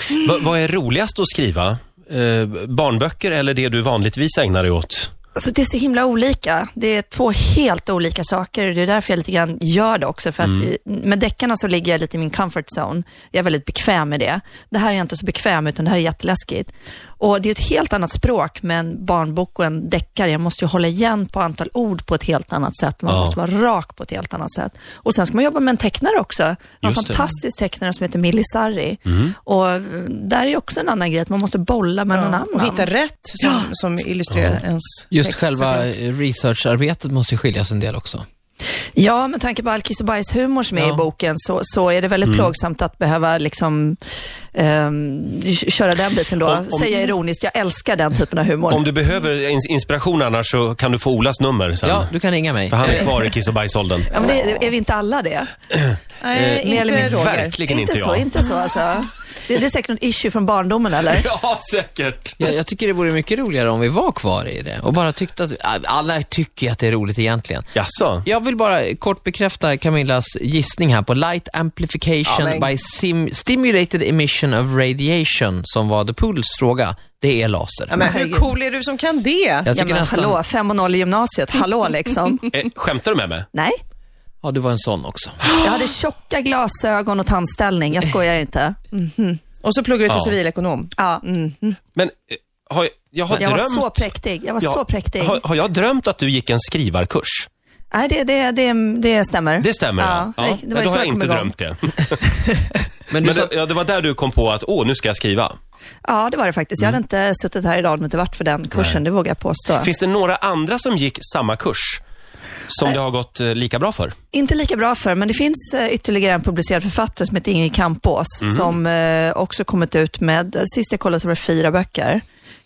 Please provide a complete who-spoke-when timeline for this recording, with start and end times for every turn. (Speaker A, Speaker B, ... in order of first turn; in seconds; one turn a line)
Speaker A: 0.2-5.1
Speaker B: 5.3-32.9
Speaker A: 10.4-10.7
Speaker A: 23.1-23.4
Speaker C: 26.8-27.2
Speaker A: 29.1-29.3
Speaker D: 32.1-35.9
Speaker B: 33.4-33.7
Speaker A: 34.3-34.6
Speaker C: 35.1-38.2
Speaker B: 39.0-44.0
Speaker C: 40.7-41.0
Speaker A: 42.2-42.5
Speaker B: 44.5-48.9
Speaker A: 46.4-47.1
Speaker A: 48.7-52.1
Speaker C: 51.8-53.2
Speaker A: 52.7-54.4
Speaker B: 54.1-55.5
Speaker D: 56.2-57.6
Speaker A: 56.3-58.3
Speaker B: 56.6-57.0
Speaker B: 57.7-61.2
Speaker A: 61.1-62.5
Speaker C: 62.4-67.7
Speaker A: 67.7-68.2
Speaker C: 68.2-78.1
Speaker D: 72.2-72.7
Speaker D: 77.9-79.7
Speaker B: 78.1-78.5
Speaker C: 79.6-80.4
Speaker B: 79.7-82.4
Speaker A: 82.5-83.5
Speaker B: 83.5-83.8
Speaker C: 84.4-85.5
Speaker B: 85.6-88.8
Speaker D: 88.9-91.8
Speaker A: 90.1-90.3
Speaker B: 91.0-91.2
Speaker A: 91.9-97.5
Speaker B: 93.3-95.4
Speaker B: 97.9-101.5
Speaker A: 99.6-102.2
Speaker C: 103.1-103.5
Speaker A: 103.1-105.5
Speaker B: 106.0-109.9
Speaker A: 108.7-109.0
Speaker A: 109.8-112.0
Speaker A: 112.7-114.2
Speaker B: 114.3-122.2
Speaker A: 118.4-118.7